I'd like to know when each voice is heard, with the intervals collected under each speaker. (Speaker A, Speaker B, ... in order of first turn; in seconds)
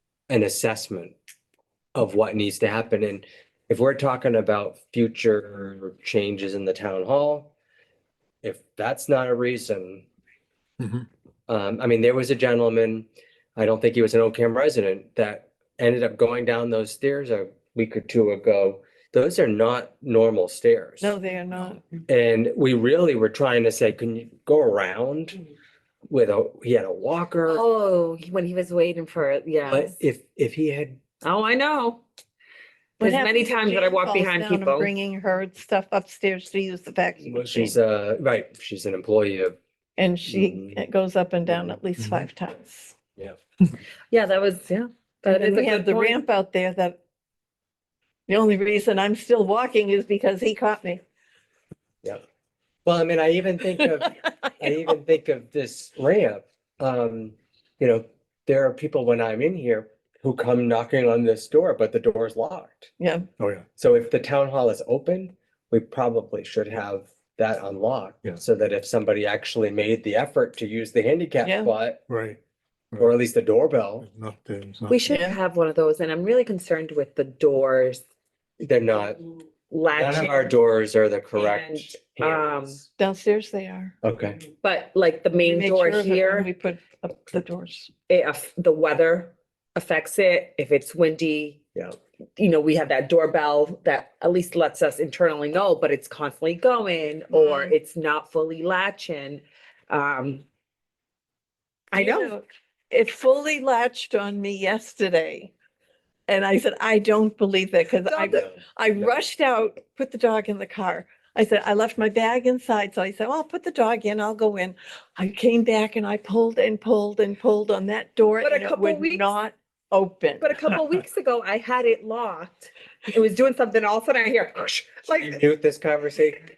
Speaker A: 0.3-1.1, 1.9-7.5, 8.4-10.1, 11.5-21.1, 22.1-25.4, 26.1-27.6, 29.7-31.0, 37.2-39.6, 40.3-40.8, 41.5-41.8, 52.9-62.9, 63.8-72.0, 73.0-74.0, 78.6-79.2, 79.9-82.9, 84.0-84.4, 108.1-109.1, 125.2-126.5
Speaker B: 10.8-11.1, 42.0-42.3, 63.4-63.6, 72.1-72.4, 74.0-75.2
Speaker C: 21.0-21.8, 33.0-37.8, 40.0-42.9, 45.3-47.0, 48.3-51.0, 63.0-63.3, 71.4-71.7, 75.1-75.4, 83.0-83.9, 85.4-87.9, 97.3-97.7, 101.9-105.5, 106.3-120.5
Speaker D: 27.5-29.9, 31.2-32.0, 33.0-34.9, 44.1-46.2, 74.9-78.0, 79.7-80.5, 81.3-82.8, 84.6-86.5, 88.1-91.6, 92.4-100.4, 101.9-102.3, 118.4-119.3, 120.4-125.4